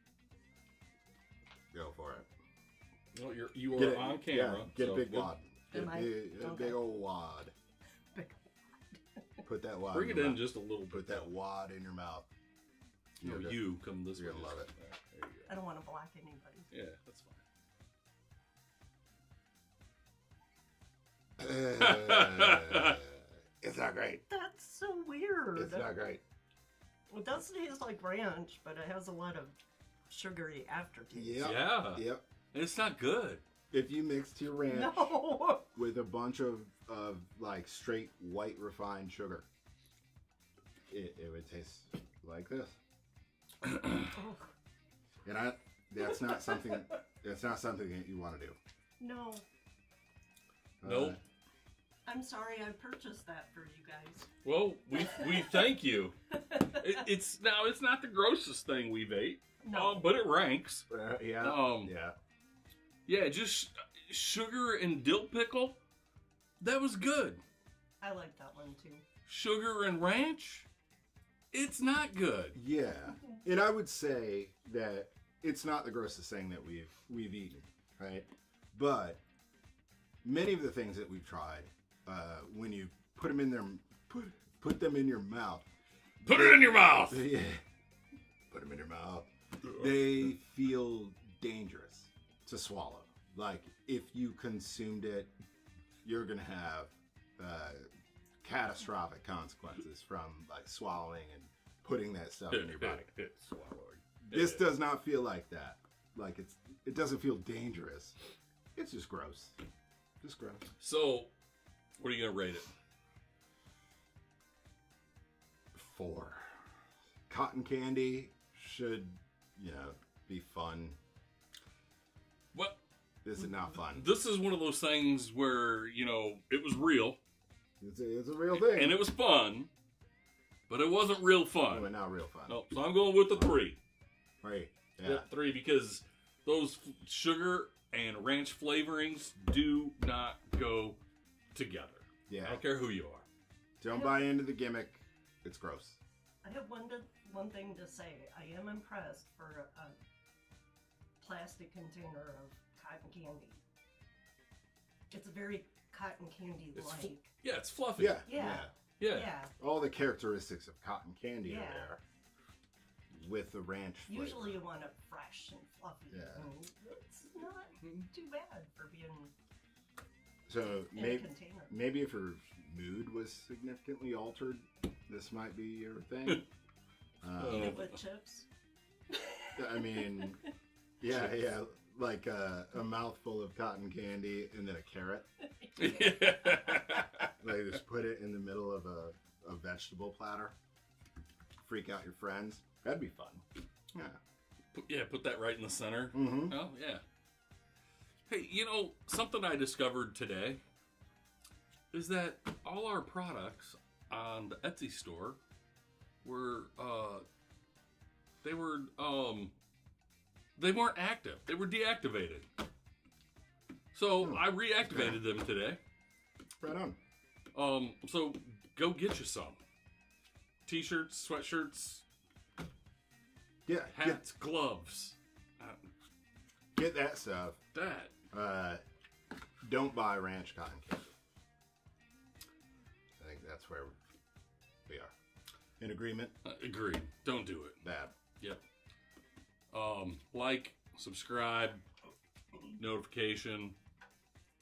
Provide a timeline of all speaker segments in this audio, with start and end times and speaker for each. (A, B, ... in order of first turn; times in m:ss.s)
0:01.7-0:02.3 A
0:03.1-0:05.3 B
0:03.7-0:07.5 A
0:05.7-0:06.8 C
0:08.1-0:09.4 C
0:09.4-0:12.3 A
0:09.9-0:11.3 B
0:13.2-0:14.7 A
0:13.2-0:15.6 B
0:15.5-0:16.7 C
0:16.7-0:17.4 B
0:21.4-0:24.2 A
0:21.8-0:23.0 B
0:24.3-0:25.9 C
0:25.5-0:26.2 A
0:27.1-0:29.6 C
0:30.1-0:31.5 C
0:31.1-0:32.2 A
0:31.4-0:33.4 B
0:33.7-0:35.1 A
0:34.7-0:35.7 C
0:35.7-0:39.5 A
0:40.9-0:42.8 A
0:44.1-0:44.5 C
0:45.2-0:48.6 A
0:49.0-0:49.4 C
0:50.8-0:51.2 A
0:50.8-0:51.2 B
0:52.0-0:54.3 C
0:54.4-1:00.9 B
0:54.9-0:55.6 C
0:56.3-0:57.0 C
0:59.6-1:00.1 C
1:00.9-1:02.1 A
1:01.4-1:01.9 B
1:03.0-1:05.8 B
1:06.6-1:07.4 B
1:08.0-1:09.0 C
1:09.2-1:10.7 B
1:11.5-1:12.6 B
1:12.5-1:19.2 A
1:20.2-1:25.7 A
1:26.2-1:27.3 B
1:26.3-1:27.6 A
1:28.5-1:35.3 A
1:36.0-1:37.9 A
1:38.4-1:43.1 A
1:42.5-1:44.7 B
1:44.3-1:48.2 A
1:48.8-1:49.6 A
1:50.2-1:50.7 A
1:50.8-1:51.3 B
1:52.0-1:52.7 B
1:55.7-1:56.5 A
1:57.3-2:01.0 A
2:02.5-2:02.8 B
2:03.2-2:04.1 A
2:03.4-2:07.2 B
2:07.8-2:09.0 A
2:08.5-2:09.7 B
2:10.7-2:11.9 B
2:11.7-2:12.6 A
2:12.5-2:13.8 B
2:14.4-2:15.3 A
2:15.0-2:21.0 B
2:21.5-2:23.3 B
2:22.3-2:22.6 A
2:23.8-2:26.0 A
2:23.9-2:24.3 C
2:26.4-2:30.0 C
2:31.2-2:33.6 C
2:35.1-2:37.3 C
2:36.7-2:38.3 B
2:38.0-2:38.7 A
2:38.2-2:39.5 C
2:39.0-2:39.4 B
2:39.6-2:42.0 A
2:41.4-2:41.9 C
2:43.1-2:44.6 A
2:44.1-2:49.3 C
2:46.1-2:46.5 A
2:50.5-2:56.4 A
2:50.9-2:51.7 C
2:57.2-2:57.8 A
2:57.4-2:58.0 B
2:57.5-2:58.5 C
2:59.1-3:00.5 C
2:59.6-3:00.4 A
3:01.0-3:05.2 A
3:05.6-3:06.8 C
3:05.8-3:07.3 B
3:07.2-3:10.5 A
3:11.6-3:14.2 A
3:14.7-3:17.0 B
3:16.1-3:16.6 A
3:18.2-3:20.6 B
3:21.9-3:25.4 B
3:26.2-3:27.2 B
3:28.4-3:29.5 B
3:30.6-3:32.5 B
3:33.9-3:35.8 B
3:34.2-3:35.2 A
3:36.6-3:37.0 A
3:37.5-3:39.6 B
3:40.6-3:42.0 B
3:43.6-3:44.2 A
3:43.9-3:45.9 B
3:46.7-3:47.6 A
3:47.7-3:48.1 B
3:48.3-3:48.8 A
3:49.6-3:51.1 A
3:53.2-3:54.0 A
3:54.9-3:55.1 A
3:55.8-3:56.3 A
3:56.4-3:57.8 B
3:57.8-3:58.2 A
3:59.7-4:01.8 B
4:02.8-4:03.8 B